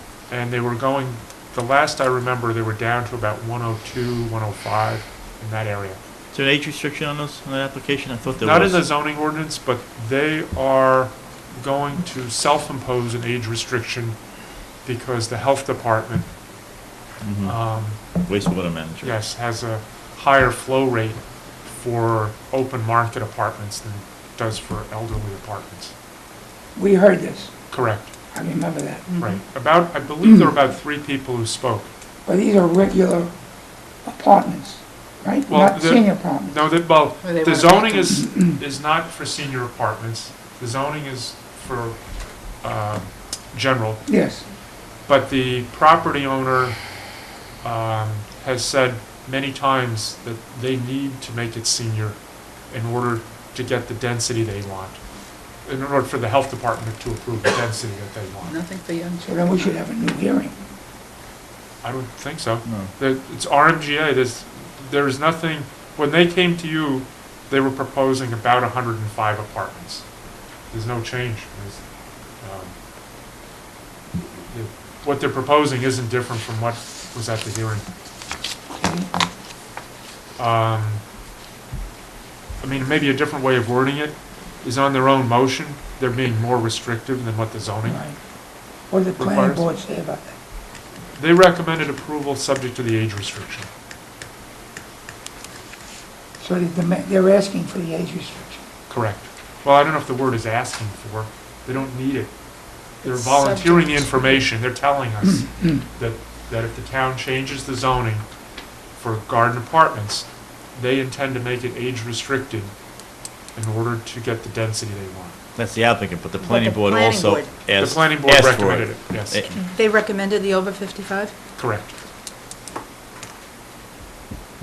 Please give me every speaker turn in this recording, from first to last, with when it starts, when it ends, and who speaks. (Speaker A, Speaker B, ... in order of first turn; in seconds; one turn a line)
Speaker A: 0.3-6.0
Speaker B: 6.3-8.8
Speaker A: 8.4-14.2
Speaker A: 14.8-16.3
Speaker B: 17.2-17.6
Speaker A: 17.4-18.0
Speaker B: 18.2-19.2
Speaker A: 19.0-25.9
Speaker C: 26.8-27.5
Speaker A: 27.7-28.1
Speaker C: 28.3-29.1
Speaker D: 29.1-29.4
Speaker A: 29.2-31.9
Speaker C: 32.2-33.3
Speaker C: 34.0-36.5
Speaker A: 35.5-42.0
Speaker D: 37.2-38.2
Speaker C: 38.2-38.6
Speaker A: 42.6-44.0
Speaker C: 44.1-44.4
Speaker A: 45.1-46.8
Speaker A: 47.6-52.2
Speaker A: 52.7-55.0
Speaker A: 55.6-58.6
Speaker D: 58.4-59.7
Speaker C: 59.2-60.5
Speaker A: 61.8-70.1
Speaker A: 70.7-71.8
Speaker A: 72.4-72.8
Speaker A: 74.2-77.9
Speaker C: 78.8-79.1
Speaker A: 80.4-81.0
Speaker A: 82.6-88.0
Speaker C: 87.8-88.2
Speaker C: 88.9-90.3
Speaker A: 89.2-89.7
Speaker A: 91.2-93.7
Speaker C: 96.4-98.7
Speaker A: 98.9-102.3
Speaker A: 103.0-108.3
Speaker D: 103.0-104.4
Speaker C: 105.2-105.8
Speaker A: 109.0-112.8
Speaker A: 113.5-115.4
Speaker B: 115.5-119.5
Speaker D: 116.4-117.5
Speaker A: 117.8-119.5
Speaker D: 119.5-121.3
Speaker A: 121.5-121.9